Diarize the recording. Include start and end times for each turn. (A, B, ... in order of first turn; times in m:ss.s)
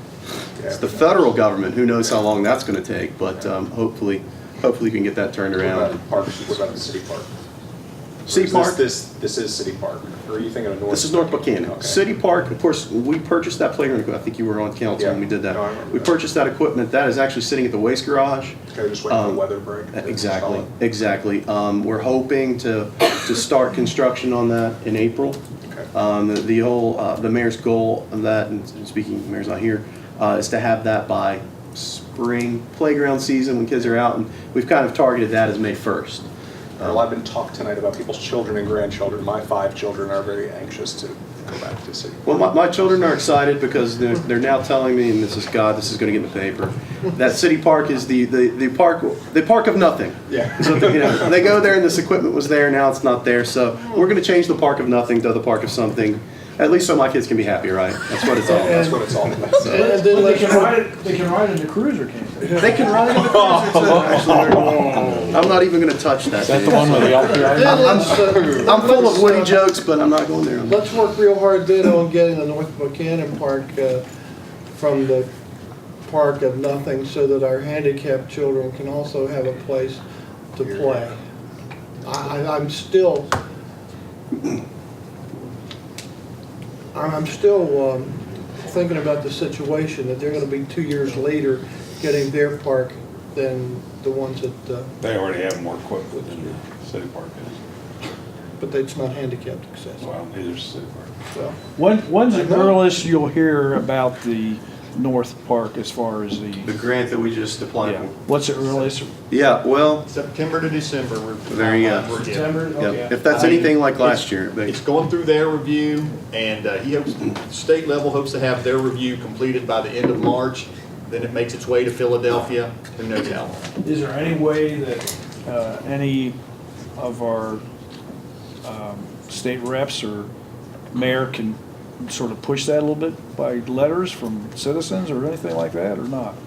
0:00.6-0:01.3 A
0:00.7-0:06.0 B
0:05.6-0:07.3 A
0:08.3-0:08.8 B
0:08.3-0:12.0 A
0:10.9-0:18.6 B
0:15.0-0:16.2 A
0:18.7-0:20.7 A
0:19.1-0:25.4 B
0:25.9-0:36.2 B
0:36.8-0:37.0 B
0:36.8-0:42.5 A
0:42.2-0:58.9 B
0:50.3-0:51.0 A
0:58.4-0:59.1 C
0:58.6-0:59.9 A
0:59.6-1:03.0 D
0:59.7-1:00.7 C
1:02.4-1:02.9 C
1:02.6-1:10.8 B
1:03.4-1:05.3 E
1:06.4-1:08.2 E
1:07.0-1:09.6 C
1:10.6-1:14.0 C
1:14.7-1:15.3 C
1:16.0-1:20.0 C
1:20.5-1:21.2 C
1:20.6-1:21.1 A
1:22.0-1:23.3 C
1:26.9-1:34.9 C
1:35.0-1:37.6 E
1:38.6-1:40.1 C
1:40.0-1:41.1 E
1:41.3-1:41.6 C
1:41.7-1:46.7 D
1:42.3-1:42.8 C
1:46.6-1:48.2 B
1:47.8-1:49.2 D
1:49.3-1:50.1 B
1:50.0-1:52.7 F
1:51.5-1:52.2 B
1:52.1-1:53.8 D
1:52.8-1:54.8 B
1:53.3-2:03.6 F
2:03.8-2:06.4 D
2:07.0-2:07.6 D
2:08.6-2:10.3 D
2:10.9-2:16.4 D